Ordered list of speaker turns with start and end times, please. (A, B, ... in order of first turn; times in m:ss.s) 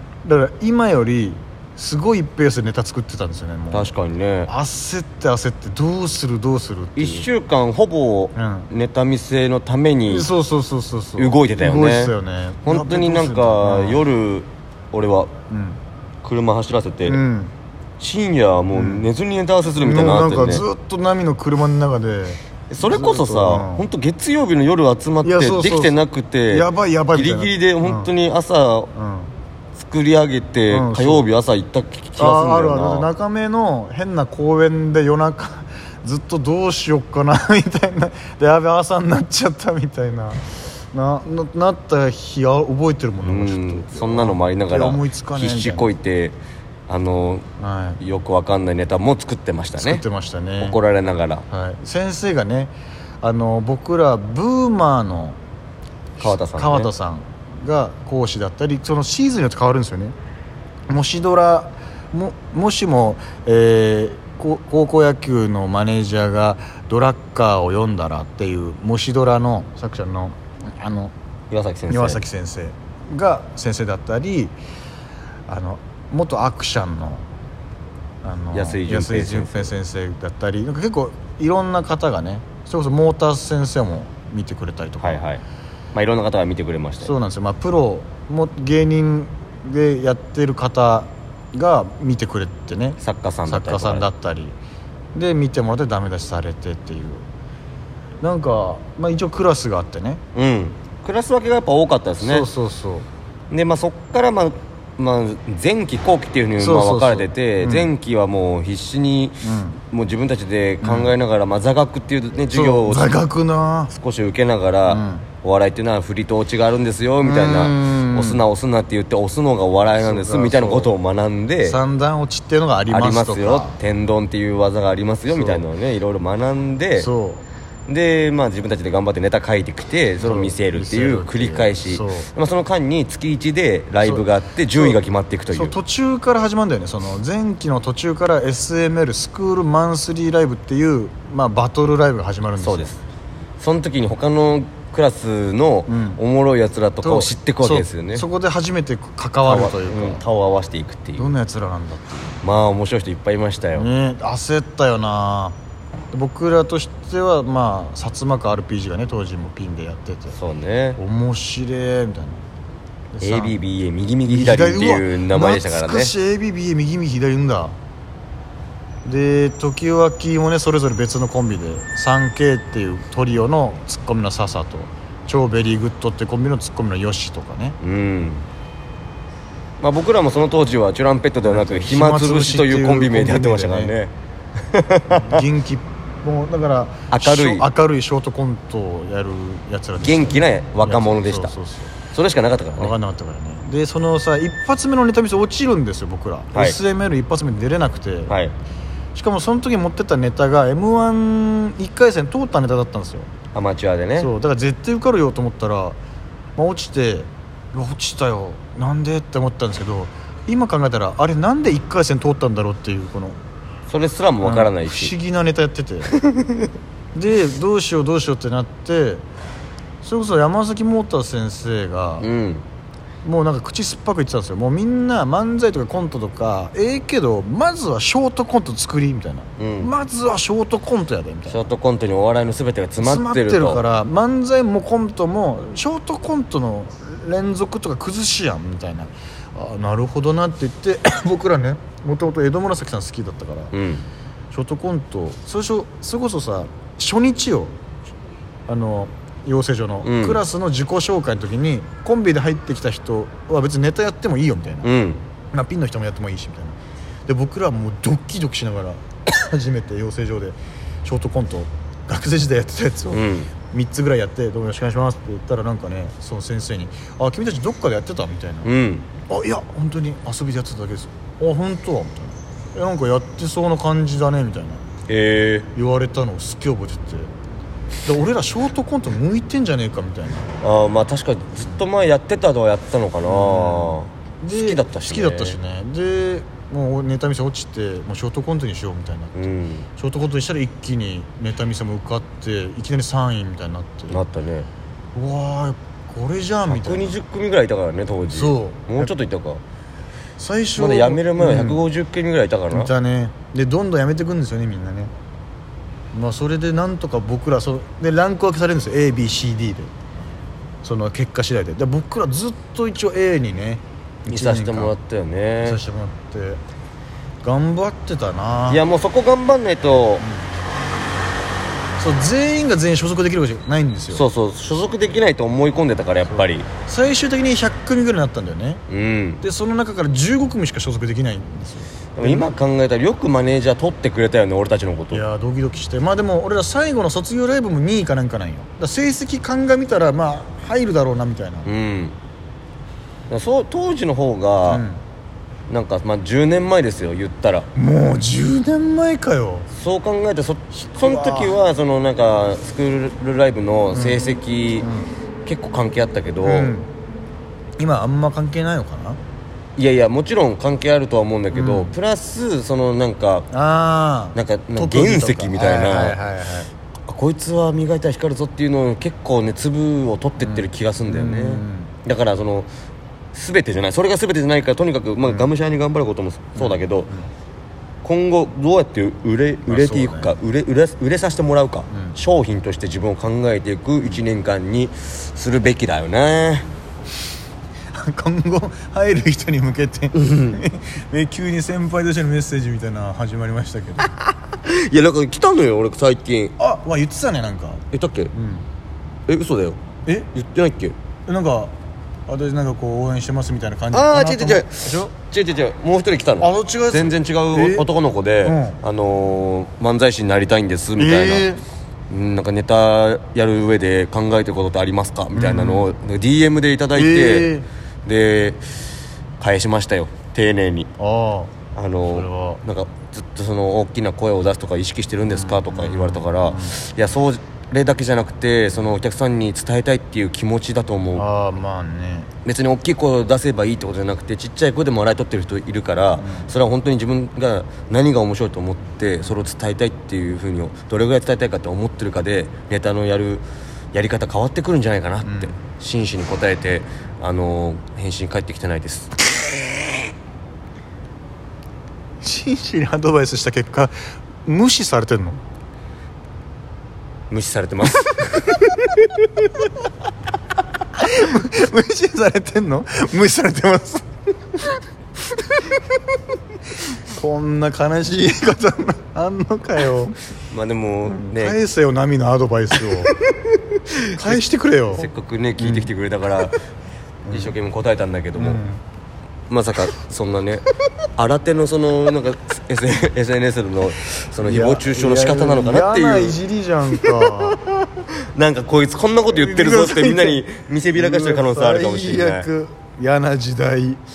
0:00.2-0:03.9 A
0:03.7-0:04.5 B
0:04.5-0:07.3 A
0:07.0-0:10.3 B
0:08.3-0:08.7 A
0:10.1-0:14.0 A
0:11.2-0:15.3 B
0:15.5-0:15.8 A
0:16.2-0:17.2 B
0:17.0-0:17.5 A
0:18.0-0:20.6 B
0:18.7-0:19.1 A
0:19.8-0:23.9 A
0:22.7-0:28.9 B
0:25.2-0:26.0 A
0:26.5-0:28.1 A
0:28.9-0:29.3 A
0:29.8-0:33.1 B
0:30.7-0:31.3 A
0:32.2-0:45.9 A
0:43.2-0:46.4 B
0:46.9-0:47.5 B
0:47.6-0:48.0 A
0:48.0-0:50.0 B
0:49.8-0:50.8 A
0:50.6-0:51.5 B
0:51.5-0:55.4 A
0:56.2-1:00.2 A
0:56.2-0:56.9 B
1:00.9-1:11.1 A
1:11.5-1:12.2 B
1:11.9-1:14.6 A
1:15.5-1:17.2 A
1:18.2-1:25.2 A
1:18.5-1:19.8 B
1:25.0-1:25.4 B
1:25.9-1:27.1 B
1:27.0-1:34.6 A
1:33.0-1:34.1 B
1:35.1-1:37.2 A
1:38.2-1:40.2 A
1:40.4-1:42.5 B
1:42.2-1:43.1 A
1:43.5-1:53.2 B
1:46.6-1:47.9 A
1:49.4-1:49.8 A
1:50.8-1:51.1 A
1:52.5-1:53.9 A
1:53.9-2:01.8 B
1:54.9-1:55.3 A
1:57.2-1:58.4 A
2:00.0-2:00.9 A
2:01.6-2:03.8 A
2:02.9-2:07.1 B
2:05.3-2:05.6 A
2:07.0-2:07.4 A
2:07.9-2:15.8 B
2:10.2-2:12.3 A
2:14.0-2:15.0 A
2:15.5-2:23.0 A
2:22.6-2:23.0 B
2:23.6-2:28.3 B
2:25.9-2:26.2 A
2:27.0-2:30.2 A
2:29.4-2:31.4 B
2:31.2-2:32.4 A
2:32.4-2:33.9 B
2:33.7-2:35.6 A
2:36.1-2:40.4 A
2:40.3-2:41.0 B
2:41.0-2:42.4 A
2:43.1-2:43.6 A
2:43.2-2:46.1 B
2:44.2-2:47.8 A
2:49.0-2:57.8 A
2:57.8-2:58.4 B
2:59.8-3:05.4 B
3:01.4-3:03.9 A
3:05.1-3:11.9 A
3:07.1-3:07.7 B
3:10.0-3:11.5 B
3:12.1-3:12.9 B
3:12.8-3:18.3 A
3:16.5-3:16.8 B
3:18.3-3:18.5 B
3:19.1-3:23.3 A
3:23.5-3:24.3 B
3:24.2-3:26.0 A
3:26.6-3:33.4 A
3:33.9-3:35.1 B
3:34.4-3:36.1 A
3:37.1-3:39.2 A
3:40.0-3:42.3 A
3:42.2-3:42.6 B
3:43.2-3:51.7 A
3:49.6-3:49.9 B
3:51.5-3:53.8 B
3:53.0-4:03.7 A
4:03.7-4:04.0 B
4:04.5-4:07.7 A
4:08.7-4:14.9 A
4:10.0-4:10.4 B
4:14.8-4:15.2 B
4:15.5-4:28.7 A
4:23.1-4:23.5 B
4:28.6-4:29.1 B
4:29.3-4:34.8 A
4:35.1-4:35.7 B
4:35.8-4:37.3 A
4:38.1-4:40.6 A
4:40.6-4:45.6 B
4:43.2-4:54.2 A
4:49.4-4:49.9 B
4:54.1-4:54.7 B
4:55.1-4:57.2 A
4:56.7-4:59.6 B
4:58.3-4:59.1 A
5:00.4-5:01.8 A
5:00.8-5:02.9 B
5:02.7-5:05.1 A
5:06.1-5:09.9 A
5:10.8-5:15.0 A
5:14.3-5:15.8 B
5:15.6-5:16.6 A
5:17.4-5:18.8 A
5:18.7-5:20.2 B
5:20.2-5:20.4 A
5:22.0-5:24.2 A
5:24.1-5:26.7 B
5:26.2-5:28.8 A
5:28.9-5:29.4 B
5:29.4-5:32.5 A
5:32.2-5:35.2 B
5:35.1-5:41.7 A
5:41.6-5:42.2 B
5:43.3-5:44.8 B
5:44.6-5:45.0 A
5:45.7-5:47.7 B
5:47.8-5:49.7 A
5:49.7-5:54.9 B
5:50.7-5:51.6 A
5:53.9-5:55.1 A
5:55.4-5:56.7 B
5:56.4-5:56.9 A
5:57.8-5:59.2 A
5:59.8-6:03.5 B
6:01.5-6:02.0 A
6:03.5-6:06.7 A
6:04.4-6:06.2 B
6:07.1-6:12.7 B
6:10.4-6:11.9 A
6:13.3-6:17.1 B
6:15.2-6:15.5 A
6:16.6-6:17.3 A
6:18.0-6:26.7 B
6:19.6-6:20.4 A
6:21.9-6:22.2 A
6:28.0-6:34.1 A
6:30.2-6:30.6 B
6:34.2-6:36.5 B
6:36.6-6:37.8 A
6:37.9-6:38.3 B
6:38.3-6:38.6 A
6:39.3-6:39.8 B
6:40.3-6:41.0 B
6:41.3-6:41.7 A
6:42.3-6:45.1 A
6:43.9-6:51.5 B
6:46.4-6:47.9 A
6:48.4-6:48.8 A
6:51.0-6:51.6 A
6:52.1-6:57.5 B
6:55.3-6:55.9 A
6:56.9-6:57.6 A
6:58.0-6:58.6 B
6:59.4-7:00.9 B
7:01.0-7:01.5 A
7:01.8-7:11.2 B
7:02.1-7:02.6 A
7:05.2-7:06.8 A
7:11.1-7:12.3 A
7:12.4-7:29.2 B
7:16.2-7:16.5 A
7:25.2-7:25.5 A
7:32.2-7:35.4 A
7:37.3-7:38.6 B
7:41.0-7:44.0 A
7:45.4-7:45.7 A
7:47.1-7:50.2 A
7:50.5-7:51.6 B
7:51.1-7:53.1 A
7:53.9-7:54.4 B
7:54.1-7:55.9 A
7:54.9-7:56.6 B
7:57.2-7:57.6 A
7:57.3-7:58.6 B
7:58.4-7:58.8 A
7:59.5-8:00.6 B
8:01.2-8:06.4 B
8:04.4-8:07.6 A
8:07.0-8:12.5 B
8:09.3-8:14.0 A